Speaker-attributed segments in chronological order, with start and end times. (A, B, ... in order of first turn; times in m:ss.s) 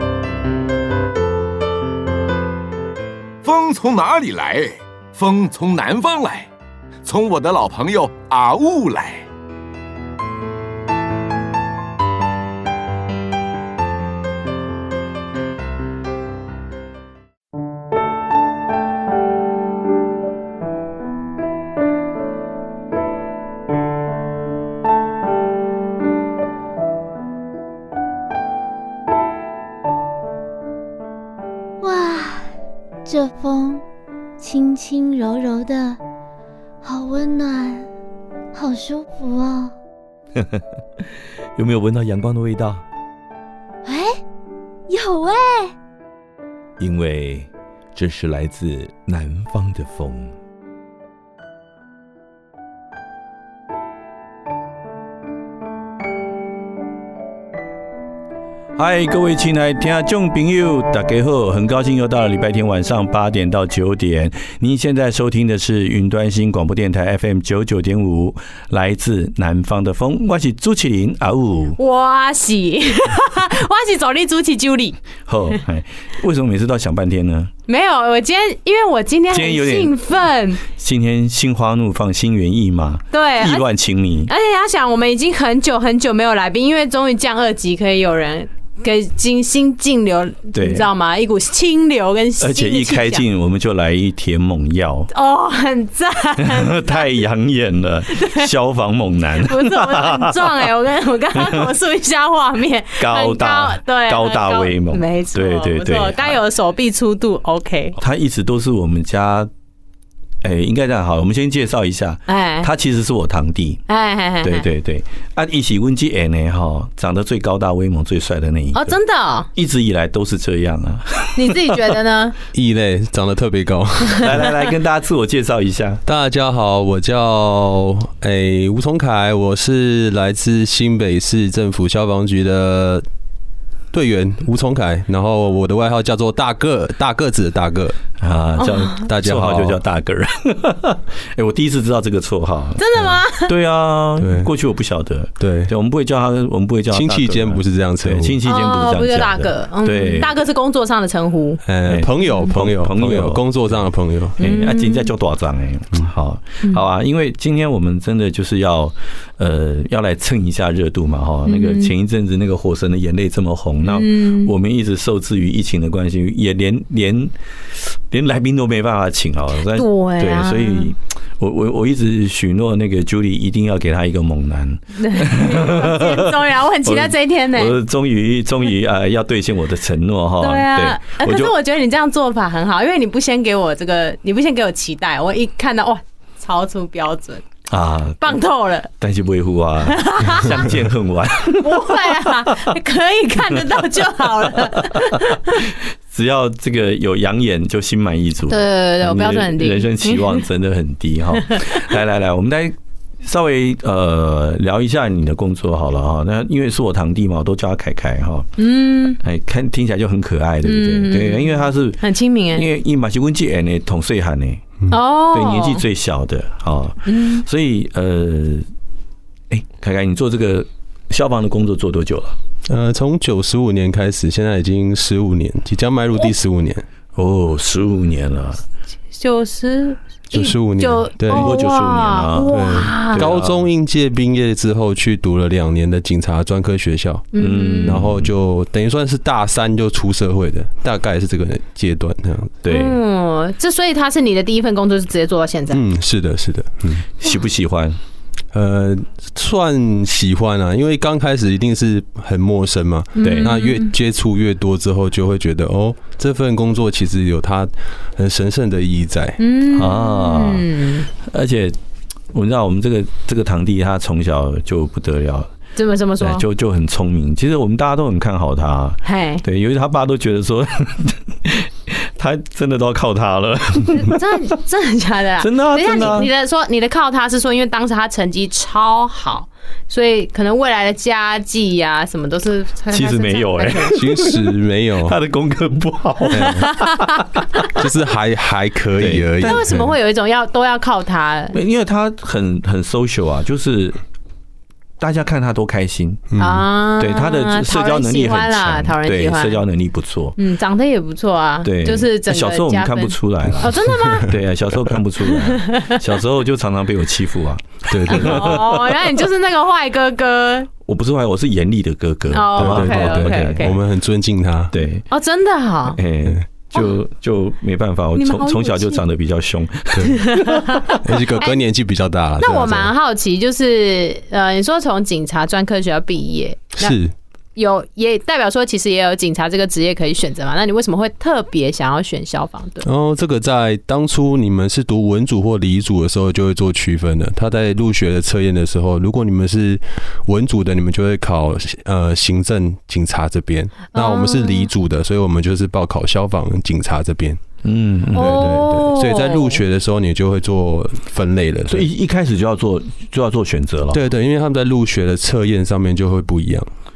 0:03.4-0:06.5 A
0:07.0-0:09.2 A
0:31.8-0:32.5 B
0:33.0-0:33.8 B
0:34.4-0:36.0 B
0:36.8-0:37.9 B
0:38.5-0:39.7 B
0:40.4-0:40.6 C
0:41.6-0:42.8 C
0:43.8-0:44.2 B
0:44.9-0:45.7 B
0:46.8-0:50.3 C
0:58.8-1:11.8 C
1:11.8-1:15.0 D
1:15.2-1:17.5 C
1:17.7-1:20.6 D
1:19.3-1:20.0 C
1:20.6-1:24.3 C
1:23.1-1:23.6 D
1:24.3-1:33.2 D
1:30.5-1:30.9 C
1:32.4-1:35.1 C
1:35.1-1:37.1 D
1:36.4-1:40.6 C
1:38.1-1:38.5 D
1:39.4-1:48.0 D
1:41.3-1:41.7 C
1:43.0-1:46.4 C
1:48.0-1:49.5 C
1:50.4-1:53.8 C
1:52.3-1:52.7 D
1:53.9-1:54.6 D
1:54.4-1:59.0 C
1:58.7-1:59.5 D
1:59.5-2:01.7 C
2:01.3-2:02.4 D
2:02.5-2:04.5 E
2:04.2-2:06.0 C
2:06.0-2:13.0 E
2:13.9-2:18.0 E
2:18.2-2:30.3 C
2:18.6-2:19.0 D
2:19.1-2:19.8 E
2:22.8-2:23.5 D
2:24.2-2:24.5 E
2:25.4-2:25.7 E
2:26.9-2:28.4 E
2:28.4-2:31.6 D
2:31.6-2:34.4 E
2:31.8-2:33.8 C
2:34.4-3:01.5 C
2:34.4-2:35.1 D
2:41.4-2:41.9 D
2:43.8-2:44.5 D
2:49.7-2:50.9 D
2:55.0-2:57.8 D
3:00.4-3:07.4 D
3:07.7-3:08.4 C
3:08.2-3:08.9 D
3:09.0-3:12.7 C
3:09.9-3:10.6 D
3:11.4-3:15.6 D
3:15.6-3:28.5 C
3:18.5-3:20.4 D
3:21.5-3:21.8 D
3:28.6-3:29.2 D
3:29.2-3:32.0 C
3:30.6-3:32.6 D
3:32.5-3:34.6 C
3:34.9-3:35.8 D
3:35.3-3:38.7 C
3:37.0-3:37.4 D
3:39.5-3:42.4 C
3:42.7-3:46.8 E
3:47.1-3:48.6 C
3:49.1-3:53.3 D
3:50.3-3:51.5 E
3:51.3-3:53.6 C
3:52.5-3:57.3 E
3:57.3-3:58.0 D
3:57.4-3:58.3 C
3:57.8-4:02.6 E
4:02.6-4:03.0 C
4:02.7-4:05.8 D
4:05.7-4:07.0 E
4:07.2-4:08.0 C
4:08.5-4:19.4 E
4:13.2-4:13.9 D
4:13.2-4:13.5 C
4:19.4-4:21.1 D
4:19.7-4:20.7 C
4:21.2-4:21.8 C
4:22.3-4:25.5 C
4:25.8-4:26.4 D
4:26.2-4:34.4 C
4:29.0-4:29.4 D
4:33.9-4:44.1 D
4:35.4-4:36.3 C
4:42.9-4:44.4 C
4:43.9-4:45.2 E
4:45.0-4:47.0 C
4:46.3-4:46.6 E
4:46.4-4:46.9 D
4:47.8-4:49.9 E
4:49.0-4:49.8 C
4:49.4-4:51.6 D
4:51.5-4:54.0 C
4:55.0-4:56.2 C
4:56.3-4:56.6 E
4:56.4-4:59.6 D
4:57.0-5:00.4 C
5:00.4-5:04.3 D
5:01.6-5:09.1 C
5:03.4-5:04.2 E
5:05.2-5:05.9 D
5:07.9-5:08.6 E
5:08.1-5:10.7 D
5:10.8-5:13.7 C
5:12.3-5:13.8 D
5:12.6-5:14.7 E
5:14.7-5:15.0 C
5:15.1-5:16.0 D
5:16.0-5:21.0 C
5:18.2-5:19.0 D
5:20.0-5:21.5 D
5:21.0-5:22.9 E
5:22.4-5:27.0 D
5:26.8-5:27.1 E
5:27.6-5:32.8 D
5:32.8-5:47.4 E
5:43.9-5:44.7 D
5:47.6-5:48.6 C
5:48.2-5:49.6 D
5:48.2-5:51.9 E
5:51.7-5:54.0 C
5:53.9-5:56.7 E